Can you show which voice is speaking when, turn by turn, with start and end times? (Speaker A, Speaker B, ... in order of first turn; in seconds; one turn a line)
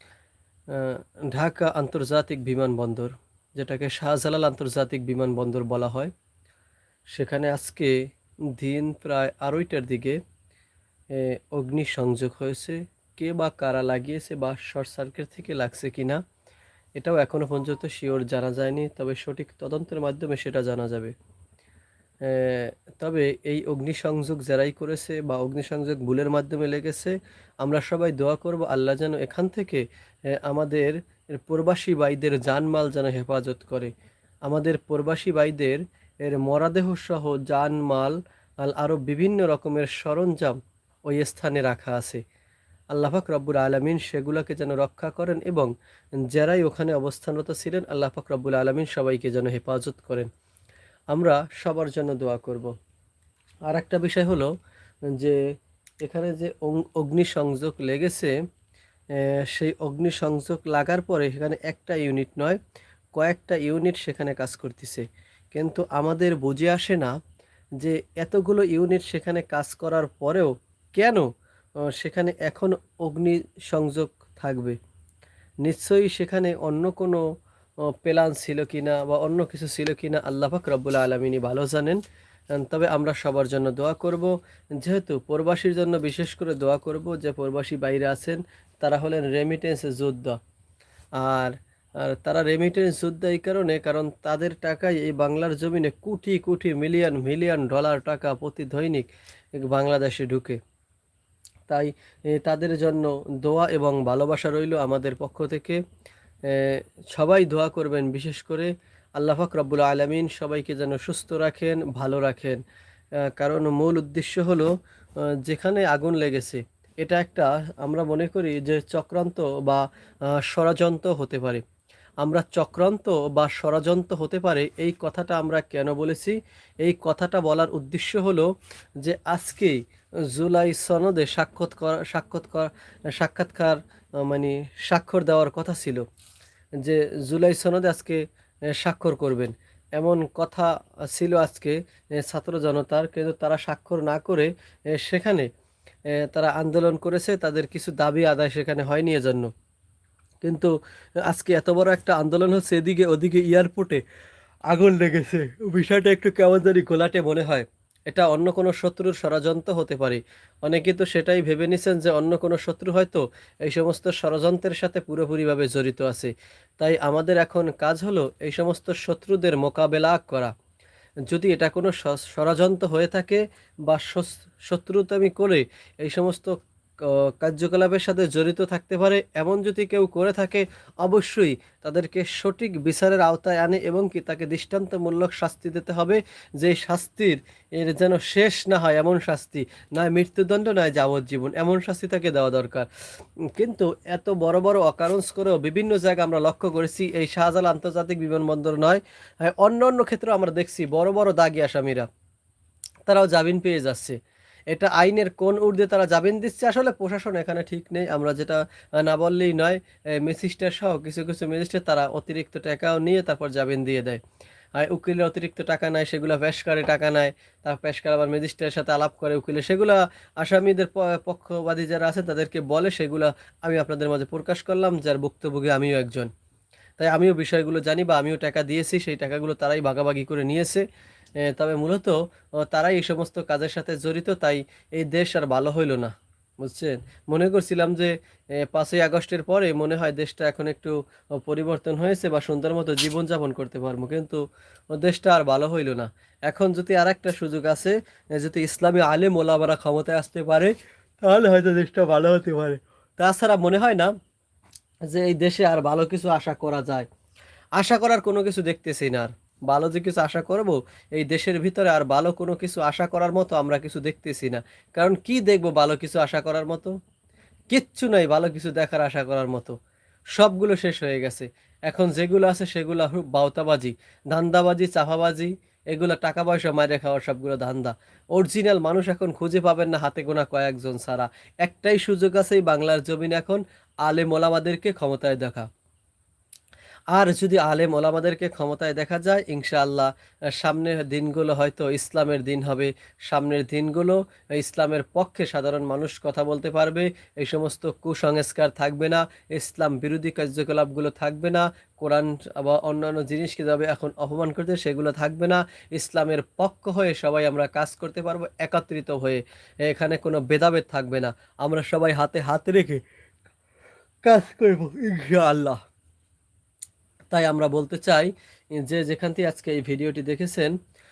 Speaker A: 0.7-6.1
Speaker A: 7.1-8.0
Speaker A: 8.6-10.2
Speaker A: 11.1-16.2
Speaker A: 17.0-21.1
Speaker A: 22.2-29.8
Speaker A: 30.3-33.9
Speaker A: 34.5-42.2
Speaker A: 42.9-45.7
Speaker A: 46.3-50.3
Speaker A: 51.1-52.7
Speaker A: 53.7-54.5
Speaker A: 56.0-58.3
Speaker A: 59.1-62.6
Speaker A: 63.1-67.1
Speaker A: 67.8-71.2
Speaker A: 71.8-74.8
Speaker A: 75.6-77.2
Speaker A: 78.0-82.0
Speaker A: 82.5-90.4
Speaker A: 91.2-100.6
Speaker A: 101.7-105.8
Speaker A: 106.5-112.6
Speaker A: 113.2-114.7
Speaker A: 115.4-121.6
Speaker A: 122.2-129.8
Speaker A: 130.3-136.0
Speaker A: 136.8-145.5
Speaker A: 146.2-149.5
Speaker A: 150.4-150.7
Speaker A: 151.3-154.0
Speaker A: 154.7-170.5
Speaker A: 171.3-192.9
Speaker A: 193.5-202.1
Speaker A: 203.1-204.2
Speaker A: 204.7-214.2
Speaker A: 214.8-226.3
Speaker A: 227.0-230.8
Speaker A: 231.4-254.1
Speaker A: 255.1-257.1
Speaker A: 257.8-266.9
Speaker A: 267.7-269.7
Speaker A: 270.4-285.7
Speaker A: 287.1-313.0
Speaker A: 314.2-315.8
Speaker A: 317.3-320.7